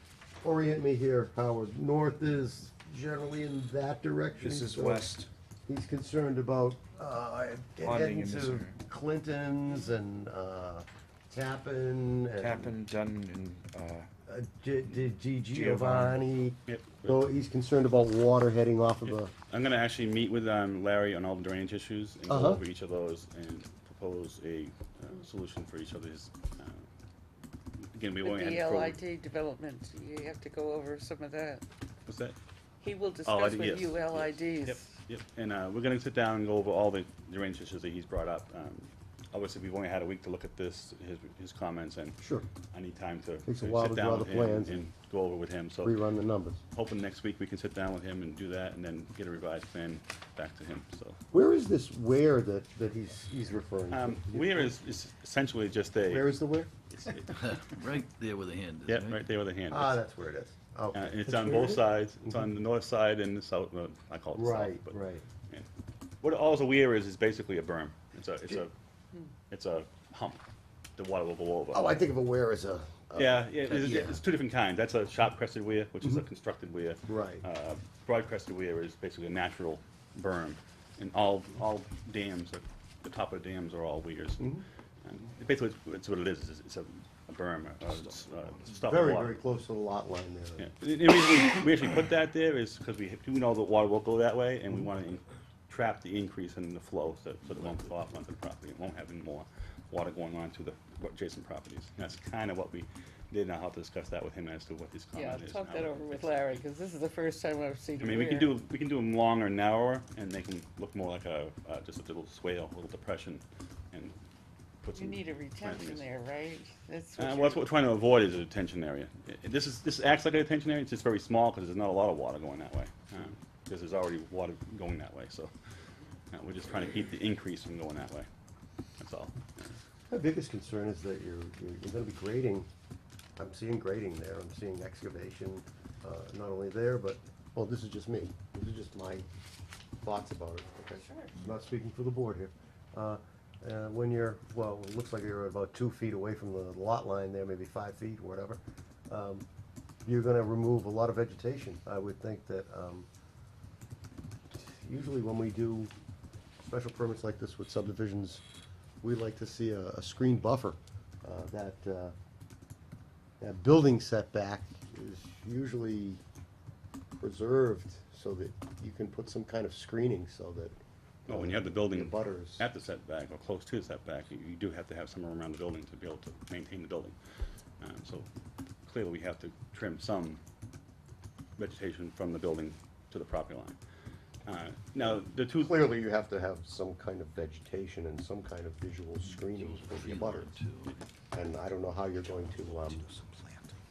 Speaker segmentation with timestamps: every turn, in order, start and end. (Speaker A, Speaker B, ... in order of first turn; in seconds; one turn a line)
Speaker A: 0.4-12.7
Speaker B: 4.4-5.3
Speaker B: 7.8-8.8
Speaker B: 12.3-14.1
Speaker A: 14.3-19.3
Speaker B: 15.6-16.2
Speaker C: 16.7-17.1
Speaker C: 19.0-26.8
Speaker A: 22.3-22.6
Speaker C: 27.9-29.0
Speaker D: 28.2-31.6
Speaker C: 32.1-32.4
Speaker D: 32.8-34.8
Speaker C: 33.2-42.2
Speaker A: 42.2-42.5
Speaker C: 42.7-45.9
Speaker A: 43.5-44.8
Speaker A: 45.8-46.6
Speaker C: 46.7-51.2
Speaker A: 51.3-54.7
Speaker C: 53.9-56.4
Speaker A: 56.0-56.7
Speaker C: 56.9-57.4
Speaker E: 57.2-59.2
Speaker C: 58.9-60.0
Speaker A: 59.7-61.8
Speaker C: 60.9-64.9
Speaker A: 64.3-65.2
Speaker C: 66.2-68.7
Speaker C: 69.5-70.4
Speaker C: 71.0-72.0
Speaker A: 71.7-74.1
Speaker C: 73.1-89.4
Speaker A: 77.0-77.4
Speaker A: 88.7-90.7
Speaker C: 90.6-106.4
Speaker D: 105.2-108.5
Speaker C: 108.0-114.2
Speaker C: 114.8-116.1
Speaker D: 115.0-117.5
Speaker C: 117.2-125.5
Speaker C: 126.3-128.3
Speaker C: 129.0-129.7
Speaker A: 130.1-132.7
Speaker A: 133.4-139.3
Speaker A: 140.0-149.4
Speaker A: 150.0-153.1
Speaker A: 154.5-155.9
Speaker A: 156.6-158.4
Speaker A: 159.0-162.1
Speaker A: 163.4-166.2
Speaker A: 167.2-172.7
Speaker C: 171.3-177.2
Speaker C: 177.8-178.3
Speaker C: 178.8-180.4
Speaker C: 181.6-183.8
Speaker C: 184.4-185.9
Speaker A: 185.0-190.5
Speaker E: 189.4-191.0
Speaker A: 191.3-193.1